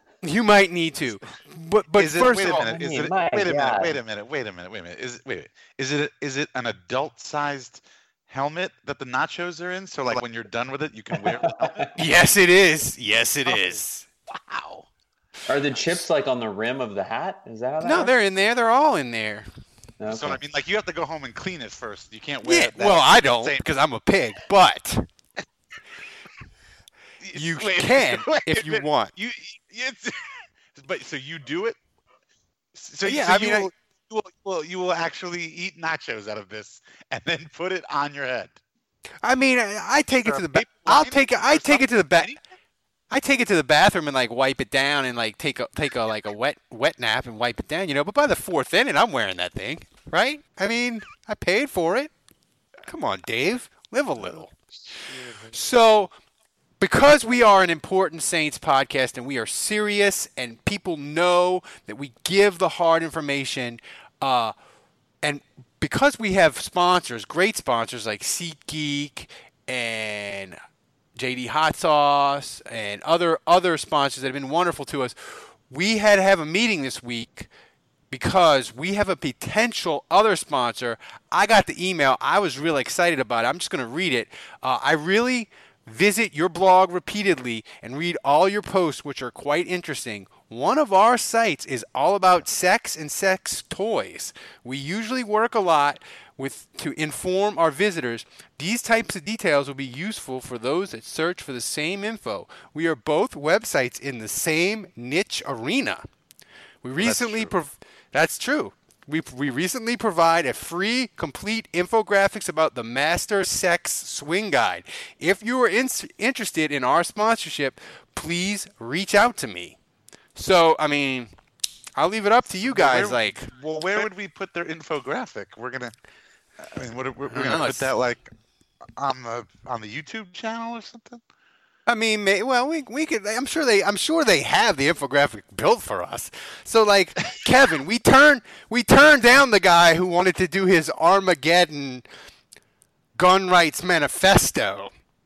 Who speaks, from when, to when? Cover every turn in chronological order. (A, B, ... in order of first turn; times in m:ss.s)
0:00.2-0:02.5 A
0:02.0-0:12.0 B
0:02.4-0:04.0 C
0:11.2-0:11.9 C
0:12.0-0:14.8 A
0:13.5-0:13.8 B
0:15.5-0:18.1 C
0:17.8-0:19.5 A
0:20.0-0:20.4 C
0:20.1-0:23.6 B
0:22.4-0:25.1 A
0:27.2-0:30.2 B
0:27.3-0:29.1 A
0:30.7-0:31.8 B
0:32.8-0:38.6 B
0:33.0-0:33.7 A
0:39.2-0:42.4 A
0:40.2-0:42.4 B
0:43.1-0:52.1 A
0:52.9-0:54.5 A
0:54.2-0:54.5 B
0:55.1-0:55.6 B
0:55.5-0:56.1 A
0:56.8-1:04.5 A
1:05.2-1:10.6 A
1:11.2-1:17.5 A
1:18.1-1:46.1 A
1:46.8-1:59.8 A
1:47.0-1:47.6 B
2:00.4-2:01.3 A
2:02.0-2:03.5 A
2:02.7-2:05.9 B
2:06.6-2:08.3 B
2:07.3-2:07.9 A
2:09.0-2:11.2 B
2:11.9-2:22.0 A
2:23.2-2:24.9 A